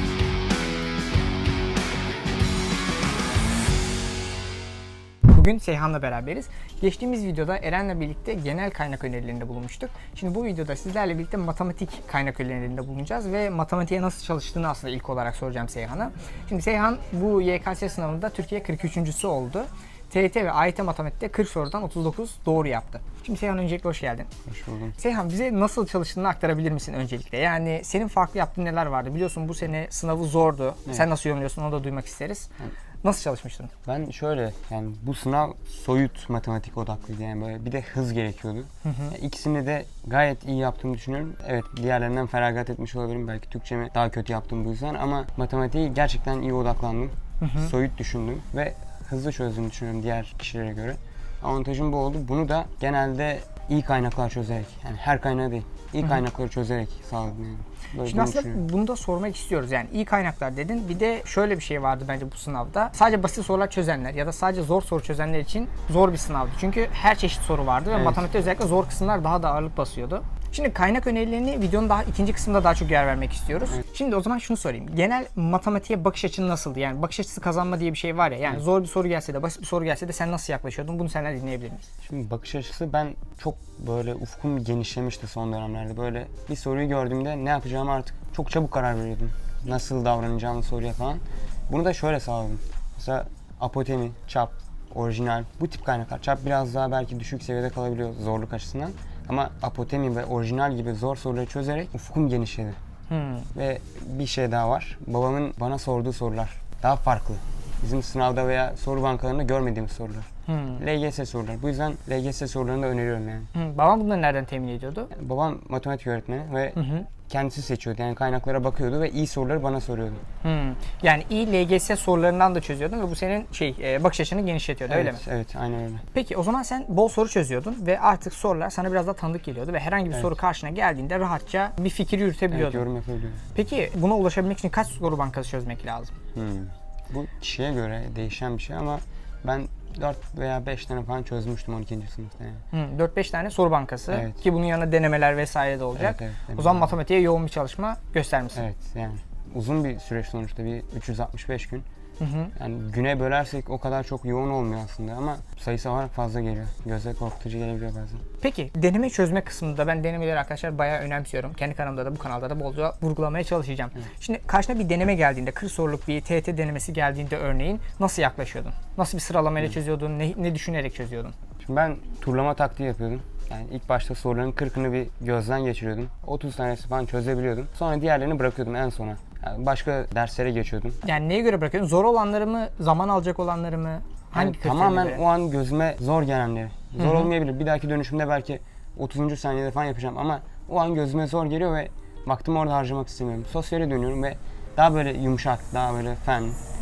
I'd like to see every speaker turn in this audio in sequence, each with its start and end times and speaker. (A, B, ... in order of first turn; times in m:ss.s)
0:05.3-0:24.3 A
0:24.4-0:25.0 B
0:25.0-0:32.5 A
0:33.0-0:33.7 A
0:33.8-0:58.6 B
0:38.8-0:39.1 A
0:47.4-0:47.7 A
0:58.0-1:21.9 A
1:07.9-1:08.2 B
1:22.0-1:42.8 B
1:43.1-1:43.5 A
1:43.5-1:53.5 B
1:50.5-1:50.8 A
1:53.5-1:55.1 A
1:55.1-2:00.2 B
1:56.8-1:57.1 A
2:00.4-2:05.2 A
2:04.9-2:06.0 B
2:06.1-2:12.9 A
2:12.5-2:13.4 B
2:13.5-2:16.1 A
2:16.3-2:22.6 B
2:22.7-2:28.6 A
2:24.1-2:24.4 B
2:26.0-2:26.9 B
2:28.5-2:31.8 B
2:32.2-2:32.5 A
2:32.6-2:38.2 B
2:38.4-2:51.3 A
2:51.6-3:01.0 B
3:01.0-3:05.2 A
3:04.3-3:16.6 B
3:07.0-3:07.3 A